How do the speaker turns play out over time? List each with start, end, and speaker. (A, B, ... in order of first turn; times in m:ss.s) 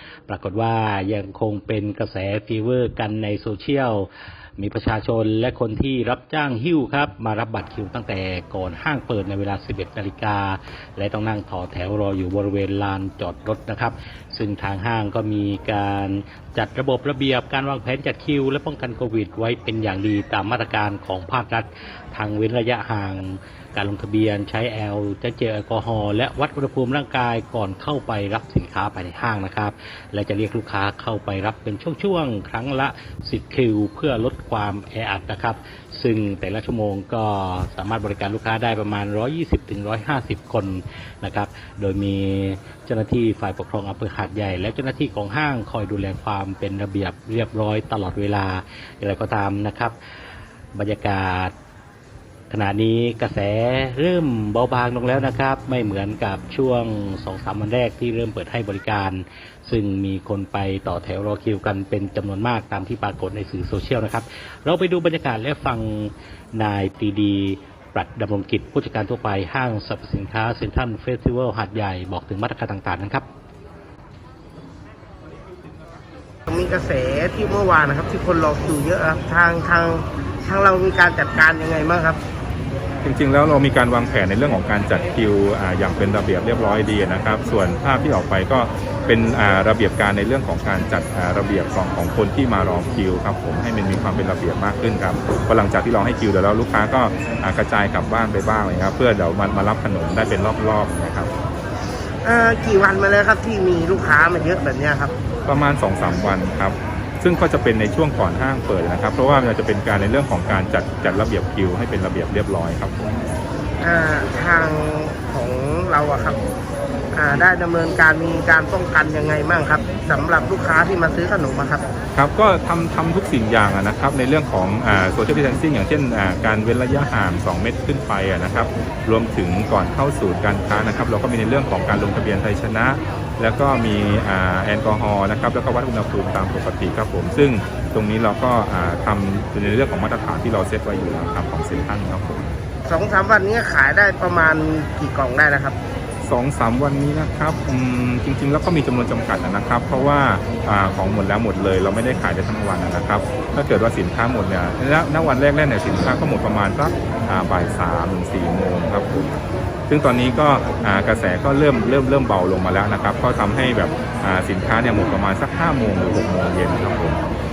0:00.3-0:49.9 A
0:50.7-0:51.5 A
0:52.5-1:13.2 A
1:16.5-1:22.2 B
1:23.0-1:41.3 C
1:42.2-1:45.1 B
1:45.4-1:53.0 C
1:53.8-1:56.4 B
1:57.1-2:01.8 B
2:02.1-2:22.4 C
2:22.9-2:25.8 B
2:26.2-2:39.4 C
2:39.9-2:47.2 C